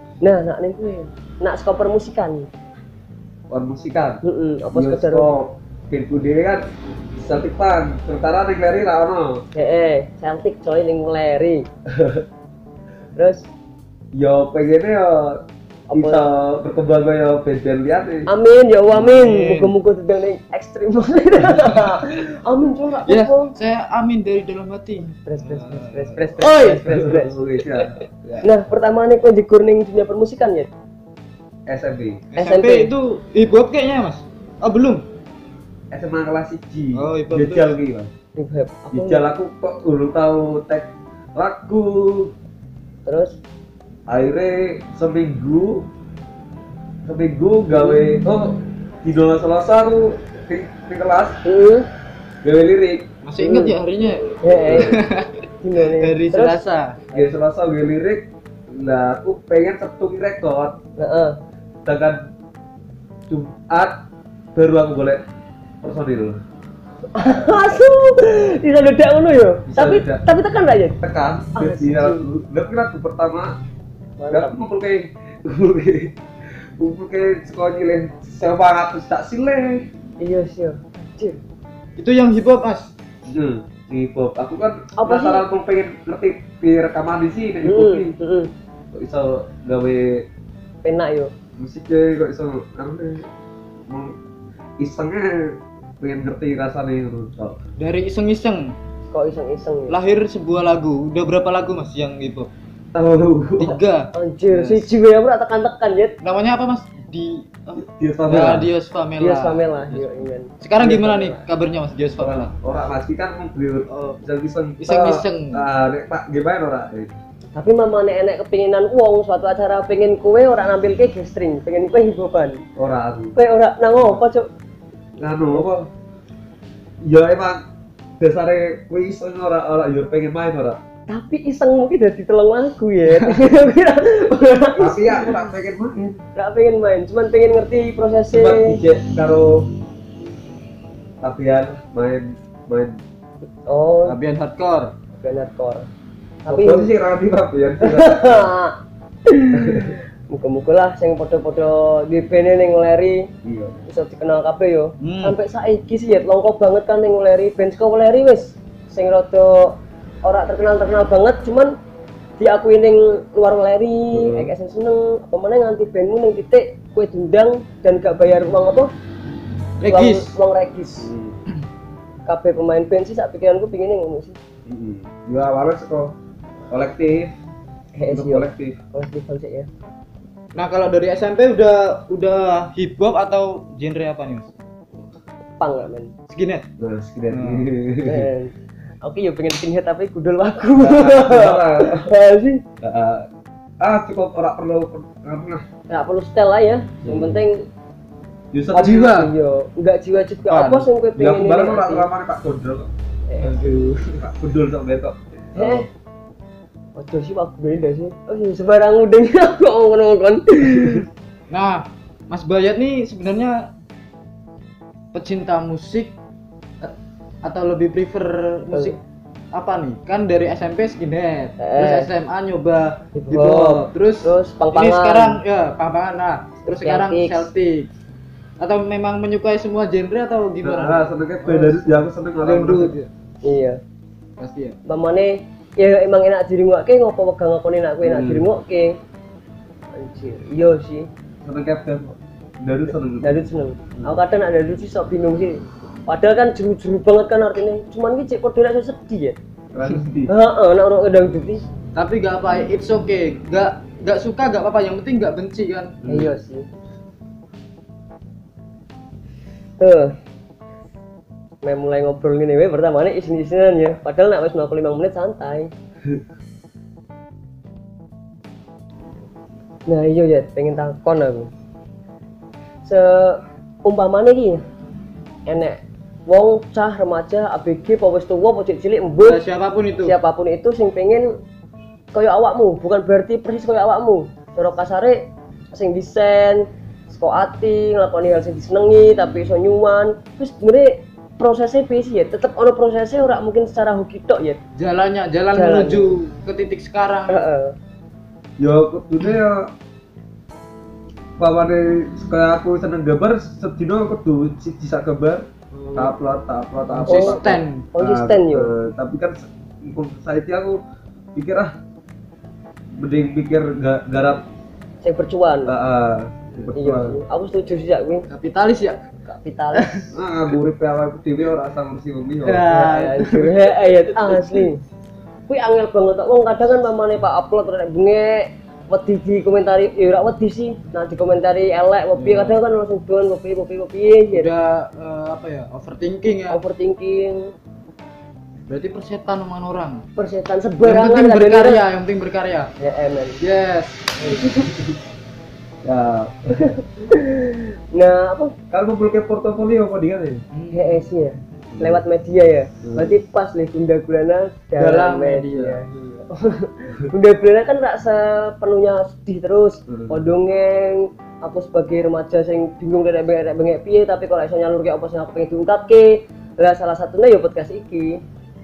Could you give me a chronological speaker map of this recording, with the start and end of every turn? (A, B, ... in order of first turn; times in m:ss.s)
0:00.2-0:02.5 A
0:03.5-0:04.2 B
0:04.2-0:05.3 A
0:04.7-0:09.4 B
0:09.6-0:11.7 A
0:11.9-0:12.2 B
0:13.2-0:13.5 A
0:14.1-0:15.4 B
0:15.9-0:16.3 A
0:15.9-0:18.3 B
0:18.3-0:23.5 A
0:18.9-0:19.7 C
0:21.6-0:22.0 C
0:23.1-0:26.8 C
0:25.0-0:27.4 A
0:26.8-0:28.5 B
0:28.4-0:30.7 A
0:31.7-0:32.2 B
0:32.3-0:35.0 C
0:32.4-0:32.9 A
0:35.9-0:38.1 B
0:37.0-0:37.7 C
0:38.4-0:39.2 A
0:38.9-0:42.3 B
0:43.1-0:43.4 A
0:44.1-0:45.9 B
0:47.0-0:51.4 B
0:47.7-0:48.0 A
0:51.4-0:51.9 A
0:52.4-0:53.1 B
0:53.2-0:57.0 C
0:53.4-0:53.8 A
0:54.4-0:55.0 A
0:54.6-0:55.0 B
0:55.6-0:56.6 A
0:57.1-1:00.8 B
1:01.0-1:01.4 A
1:01.8-1:02.3 B
1:03.3-1:04.0 B
1:04.6-1:05.2 B
1:05.8-1:06.4 B
1:07.2-1:11.0 A
1:09.7-1:10.2 B
1:11.0-1:13.6 B
1:11.6-1:12.2 A
1:14.2-1:14.6 A
1:14.3-1:16.2 B
1:16.8-1:19.9 B
1:20.2-1:21.4 A
1:22.0-1:22.9 C
1:23.3-1:28.2 B
1:25.0-1:25.4 A
1:27.6-1:28.5 A
1:28.9-1:30.3 B
1:30.8-1:31.3 A
1:31.6-1:33.3 B
1:33.9-1:34.2 B
1:34.8-1:37.6 B
1:37.8-1:38.8 C
1:39.1-1:40.0 A
1:39.9-1:42.5 C
1:42.9-1:43.8 B
1:43.6-1:44.9 C
1:44.1-1:46.2 A
1:46.2-1:52.5 C
1:47.8-1:48.7 B
1:49.2-1:51.4 A
1:52.2-1:57.2 B
1:53.9-1:54.2 C
1:54.8-1:55.7 C
1:57.6-2:02.6 A
2:02.8-2:03.4 B
2:03.4-2:04.5 A
2:05.2-2:05.9 B
2:07.0-2:07.6 B
2:08.2-2:10.8 B
2:11.1-2:15.4 A
2:14.8-2:16.2 B
2:16.4-2:18.8 A
2:18.3-2:19.7 B
2:21.2-2:23.0 B
2:23.7-2:24.2 A
2:24.1-2:24.9 C
2:25.2-2:25.9 A
2:26.4-2:26.9 A
2:26.5-2:28.5 B
2:27.8-2:33.3 A
2:29.5-2:30.0 B
2:33.4-2:33.8 B
2:33.9-2:41.8 A
2:35.0-2:35.4 C
2:42.4-2:48.9 A
2:44.1-2:44.5 B
2:49.8-2:50.3 C
2:49.9-2:51.1 A
2:51.0-2:51.4 B
2:52.3-2:54.4 A
2:54.7-2:56.2 B
2:56.7-2:57.3 B
2:58.0-2:59.7 A
2:58.1-2:58.8 B
3:00.6-3:04.5 C
3:05.6-3:06.1 A
3:06.3-3:06.6 C
3:06.8-3:08.3 B
3:07.3-3:07.7 C
3:08.1-3:12.6 A
3:10.8-3:12.1 B
3:12.8-3:13.3 B
3:13.8-3:15.6 B
3:15.9-3:17.6 A
3:17.0-3:17.4 B
3:18.5-3:19.1 B
3:18.7-3:22.1 A
3:18.8-3:19.3 C
3:20.5-3:20.9 C
3:21.2-3:22.9 B
3:23.3-3:23.8 A
3:23.4-3:24.2 C
3:24.1-3:25.9 B
3:25.6-3:25.9 A
3:27.0-3:31.1 A
3:31.5-3:33.7 C
3:35.1-3:36.1 C
3:37.4-3:39.0 C
3:39.5-3:47.9 C
3:41.6-3:42.1 A
3:43.2-3:45.4 A
3:46.6-3:47.5 A
3:48.6-3:51.8 C
3:50.6-3:53.0 B
3:51.5-3:51.8 A
3:52.4-3:53.1 C
3:53.4-3:53.8 A
3:54.4-3:54.8 C
3:54.9-3:59.0 A
3:58.0-3:58.5 B
3:59.9-4:01.1 A
4:01.4-4:03.4 B
4:03.2-4:09.4 A
4:09.7-4:10.3 B
4:10.3-4:11.6 A
4:12.0-4:16.0 C
4:16.0-4:16.3 B
4:16.1-4:16.7 A
4:19.8-4:20.2 A
4:21.6-4:25.7 A
4:29.9-4:31.5 A
4:32.8-4:34.6 A
4:35.5-4:39.4 A
4:39.2-4:40.2 C
4:40.0-4:41.4 A
4:42.1-4:54.6 A
4:54.8-4:57.4 C
4:55.5-4:56.2 A
4:57.3-4:57.8 A
4:58.6-4:59.7 B
5:01.4-5:10.8 B
5:05.7-5:06.1 C
5:06.9-5:07.9 C
5:07.1-5:07.4 A
5:07.9-5:08.7 A
5:11.4-5:11.7 B
5:13.0-5:14.4 B
5:15.0-5:15.7 A
5:15.7-5:17.2 B
5:16.7-5:18.3 A
5:18.3-5:19.0 C
5:19.3-5:20.0 A
5:19.7-5:20.1 C
5:20.1-5:22.7 B
5:22.4-5:24.6 C
5:22.7-5:24.8 A
5:25.5-5:34.5 A
5:32.2-5:32.6 C
5:34.3-5:36.6 C
5:36.5-5:37.5 A
5:38.7-5:40.0 C
5:40.2-5:41.8 A
5:40.8-5:42.7 C
5:42.8-5:43.4 A
5:43.4-5:44.6 C
5:44.4-5:44.9 B
5:45.8-5:46.8 B
5:46.5-5:48.5 A
5:48.7-5:50.4 B
5:50.5-5:51.0 C
5:50.7-6:08.2 A
5:51.7-5:52.0 B
5:52.8-5:53.2 B
5:54.8-5:55.8 C
5:59.9-6:00.3 B